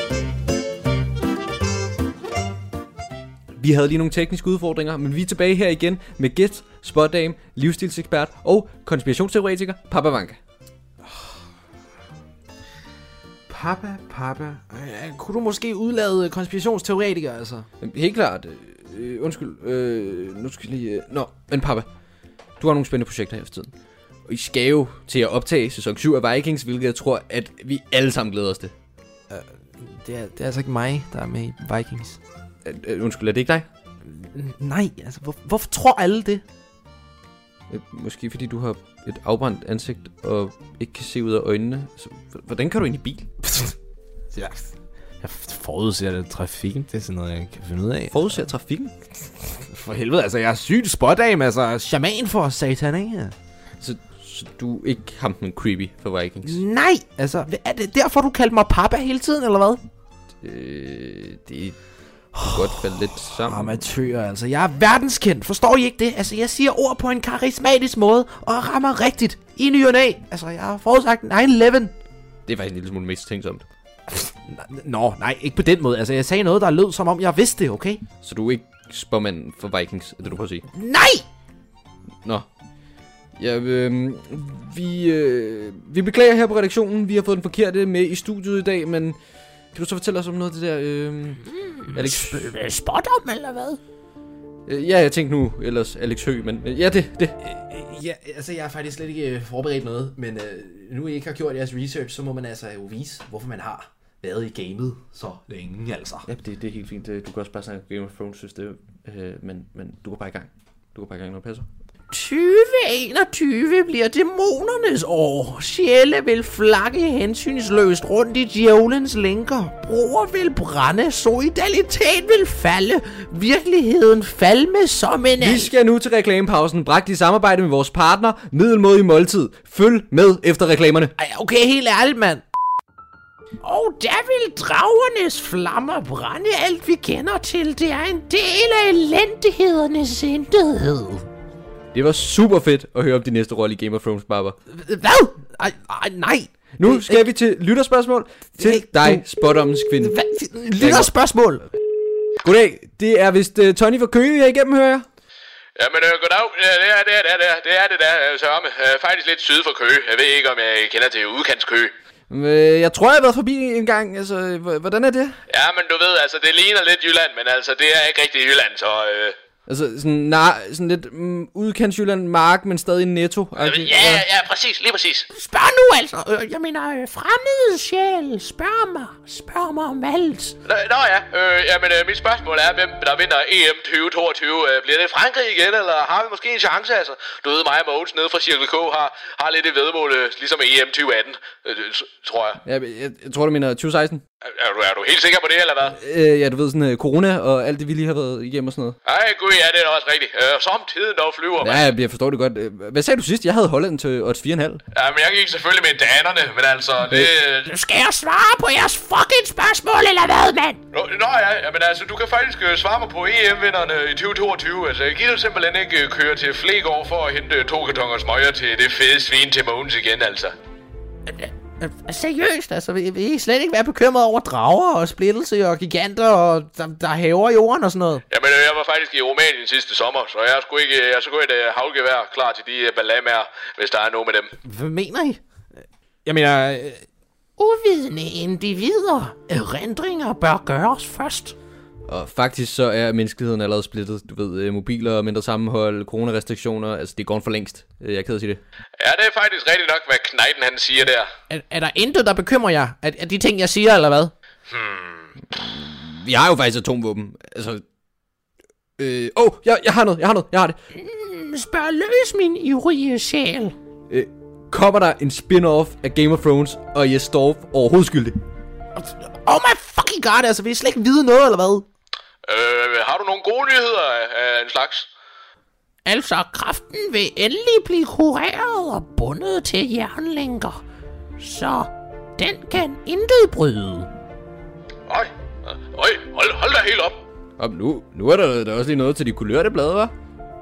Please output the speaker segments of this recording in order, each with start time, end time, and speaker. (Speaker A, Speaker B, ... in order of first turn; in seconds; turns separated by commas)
Speaker A: 3.6-10.4, Speaker B: 11.1-11.4, Speaker B: 13.5-17.7, Speaker A: 17.8-21.9, Speaker A: 22.6-23.7, Speaker A: 24.3-28.7, Speaker B: 29.3-32.2, Speaker A: 32.6-33.7, Speaker B: 34.3-36.4, Speaker A: 37.7-43.3, Speaker B: 44.3-48.4, Speaker A: 48.1-48.9, Speaker B: 49.6-53.3, Speaker A: 53.8-56.6, Speaker C: 56.5-59.8, Speaker B: 57.0-57.5, Speaker A: 60.4-61.8, Speaker A: 62.4-63.8, Speaker B: 63.4-67.2, Speaker C: 66.0-68.4, Speaker B: 67.9-71.9, Speaker A: 72.5-73.7, Speaker B: 74.3-78.0, Speaker A: 78.2-80.7, Speaker C: 80.8-81.2, Speaker A: 83.4-89.2, Speaker A: 89.7-92.5, Speaker C: 92.0-93.8, Speaker A: 94.7-97.4, Speaker B: 97.4-106.3, Speaker A: 106.3-111.7, Speaker C: 112.1-125.7, Speaker A: 125.4-131.1, Speaker C: 131.2-132.4, Speaker C: 133.6-141.2, Speaker A: 141.9-144.6, Speaker C: 144.7-147.2, Speaker A: 146.8-150.2, Speaker C: 148.6-149.2, Speaker C: 149.9-151.7, Speaker A: 150.8-151.1, Speaker A: 152.4-155.1, Speaker D: 155.8-161.9, Speaker A: 162.3-165.4, Speaker D: 165.5-169.4, Speaker A: 169.7-174.2, Speaker D: 173.6-175.3, Speaker C: 175.3-180.6, Speaker D: 180.7-192.6, Speaker A: 192.7-194.2, Speaker D: 194.5-196.0, Speaker A: 195.9-199.0, Speaker D: 199.1-201.8, Speaker A: 201.6-204.8, Speaker D: 204.9-207.7, Speaker C: 207.6-210.8, Speaker D: 210.9-220.6, Speaker C: 221.3-228.2, Speaker D: 228.3-234.5, Speaker C: 234.7-235.4, Speaker C: 236.3-237.0, Speaker C: 237.6-241.6, Speaker A: 242.1-248.6, Speaker D: 249.0-251.3, Speaker C: 251.5-254.3, Speaker D: 254.7-255.3, Speaker A: 255.5-257.8, Speaker A: 259.0-260.8, Speaker C: 260.9-263.8, Speaker A: 264.1-268.4, Speaker C: 269.0-271.9, Speaker D: 272.5-275.1, Speaker C: 276.1-280.8, Speaker C: 281.4-284.1, Speaker D: 285.1-287.2, Speaker A: 287.6-290.1